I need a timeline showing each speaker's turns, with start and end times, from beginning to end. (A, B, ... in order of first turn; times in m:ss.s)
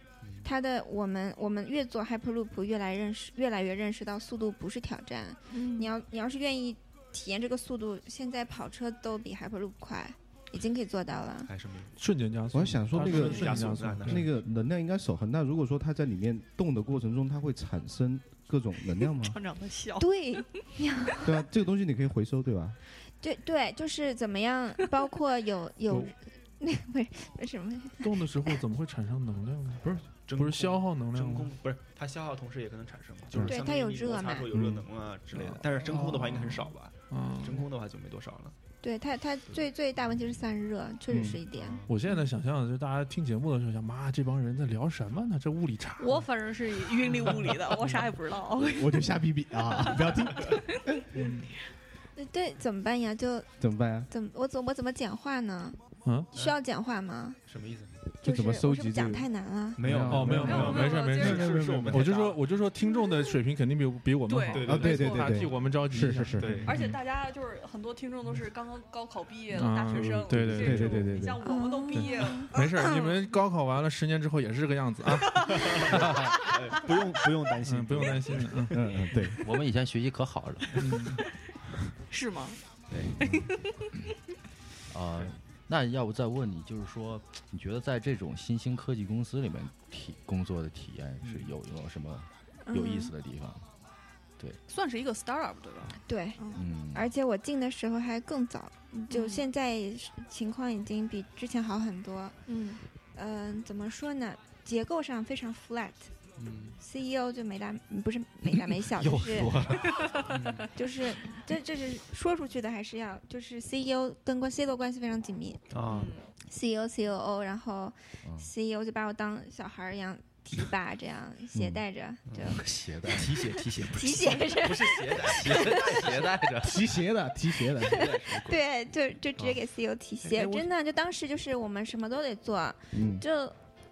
0:00.4-0:11.5 A
0:05.5-0:05.9 B
0:11.4-0:11.9 C
0:12.0-0:14.4 D
0:12.5-0:19.4 E
0:12.9-0:14.3 C
0:19.0-0:20.8 B
0:20.0-0:21.3 A
0:21.2-0:22.8 E
0:23.2-0:28.1 A
0:25.9-0:26.1 D
0:28.0-0:31.5 D
0:30.3-0:38.5 C
0:33.4-0:34.5 A
0:34.5-0:34.9 E
0:35.8-0:37.6 D
0:38.8-0:41.8 A
0:41.1-0:41.4 E
0:41.5-0:42.0 C
0:41.8-0:46.3 D
0:46.0-0:49.0 B
0:48.6-0:51.2 E
0:49.7-0:50.2 B
0:51.2-0:51.5 D
0:52.2-0:53.5 A
0:53.6-0:54.1 E
0:54.1-0:55.8 A
0:56.0-0:56.3 D
0:56.3-0:57.4 A
0:57.4-0:57.9 C
0:58.2-0:59.8 A
0:58.2-1:02.1 E
0:59.8-1:02.4 C
1:00.0-1:07.0 D
1:00.2-1:01.5 B
1:04.2-1:05.6 B
1:04.5-1:05.3 C
1:04.6-1:06.7 E
1:05.8-1:06.8 C
1:06.6-1:13.3 B
1:09.5-1:11.2 D
1:10.3-1:11.4 E
1:11.4-1:12.5 A
1:11.9-1:15.8 D
1:15.1-1:16.8 B
1:15.6-1:19.0 C
1:17.6-1:19.0 D
1:18.7-1:19.4 E
1:19.4-1:20.9 F
1:20.8-1:21.2 D
1:22.1-1:22.6 B
1:22.9-1:23.2 F
1:23.2-1:23.4 E
1:23.2-1:23.8 B
1:24.9-1:33.6 F
1:31.2-1:31.5 C
1:32.6-1:33.1 A
1:34.7-1:36.7 B
1:36.0-1:36.4 A
1:36.5-1:37.1 F
1:36.9-1:42.4 A
1:38.9-1:39.5 B
1:42.5-1:42.8 B
1:43.1-1:46.1 A
1:46.4-1:46.8 C
1:46.8-1:49.7 A
1:48.6-1:50.3 F
1:49.7-1:50.7 C
1:49.8-1:50.5 B
1:50.7-1:55.6 A
1:55.7-1:56.1 C
1:55.9-1:56.3 B
1:56.4-2:02.6 A
1:58.2-1:58.5 F
2:02.3-2:06.5 C
2:02.5-2:03.6 F
2:03.9-2:05.8 A
2:04.9-2:06.9 F
2:06.6-2:08.0 E
2:07.7-2:08.6 C
2:07.9-2:13.6 A
2:10.2-2:10.7 C
2:12.9-2:13.2 E